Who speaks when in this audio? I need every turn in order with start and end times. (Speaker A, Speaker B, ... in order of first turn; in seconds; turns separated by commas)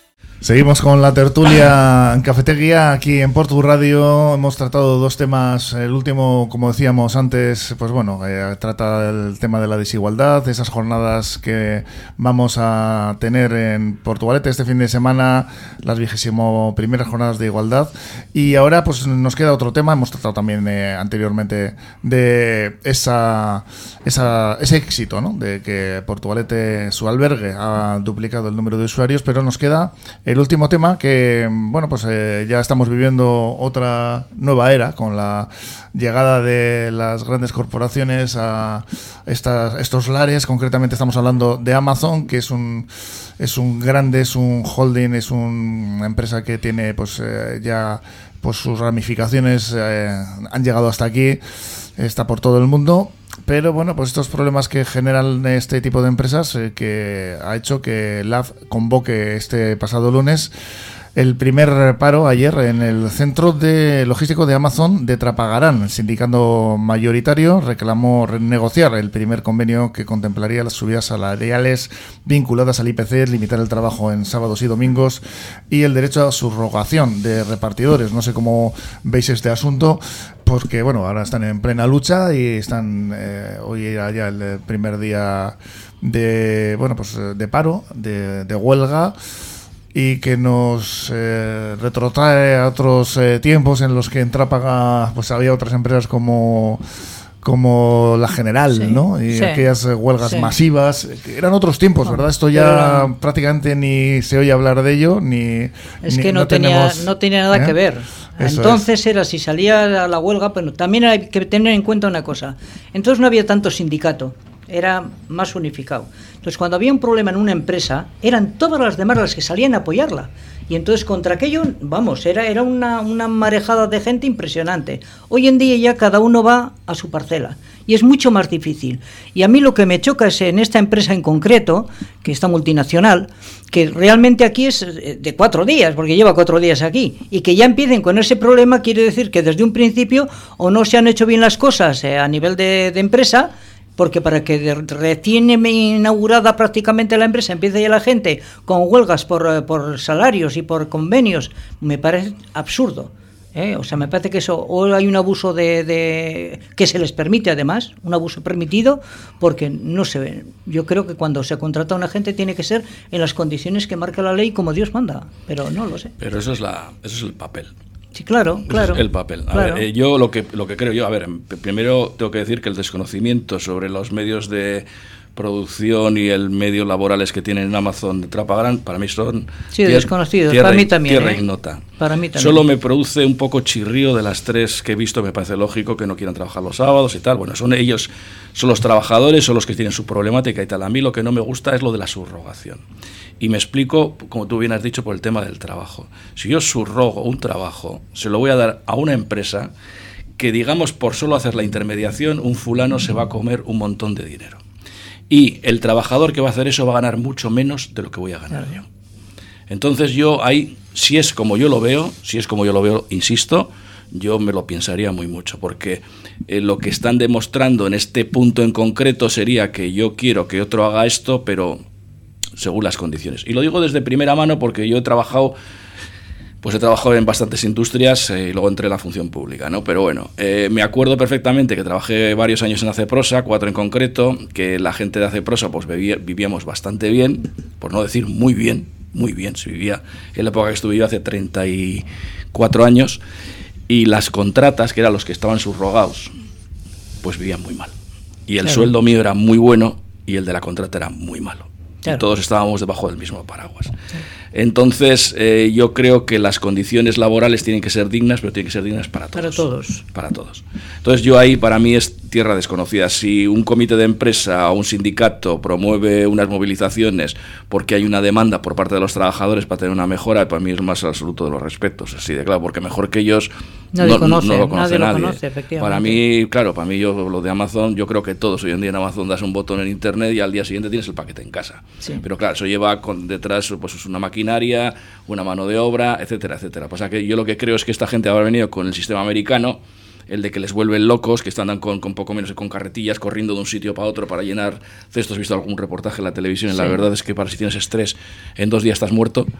Speaker A: 0.4-51.4, Speaker A: 52.0-60.5, Speaker A: 61.1-89.2, Speaker A: 89.9-96.8, Speaker A: 97.4-107.8, Speaker B: 98.7-99.6, Speaker B: 100.2-100.5, Speaker B: 102.1-103.1, Speaker B: 106.0-166.1, Speaker A: 108.4-108.8, Speaker C: 166.2-167.7, Speaker B: 168.2-169.8, Speaker C: 168.7-181.8, Speaker B: 179.7-181.4, Speaker B: 182.0-182.6, Speaker C: 182.3-192.8, Speaker C: 193.4-199.7, Speaker C: 200.4-204.6, Speaker C: 205.3-208.8, Speaker C: 209.7-221.8, Speaker C: 222.6-225.6, Speaker C: 226.6-243.2, Speaker C: 243.9-246.3, Speaker C: 247.2-247.9, Speaker C: 248.5-253.9, Speaker B: 248.6-248.9, Speaker C: 254.5-299.5, Speaker B: 259.3-260.0, Speaker B: 273.9-276.2, Speaker B: 296.7-297.0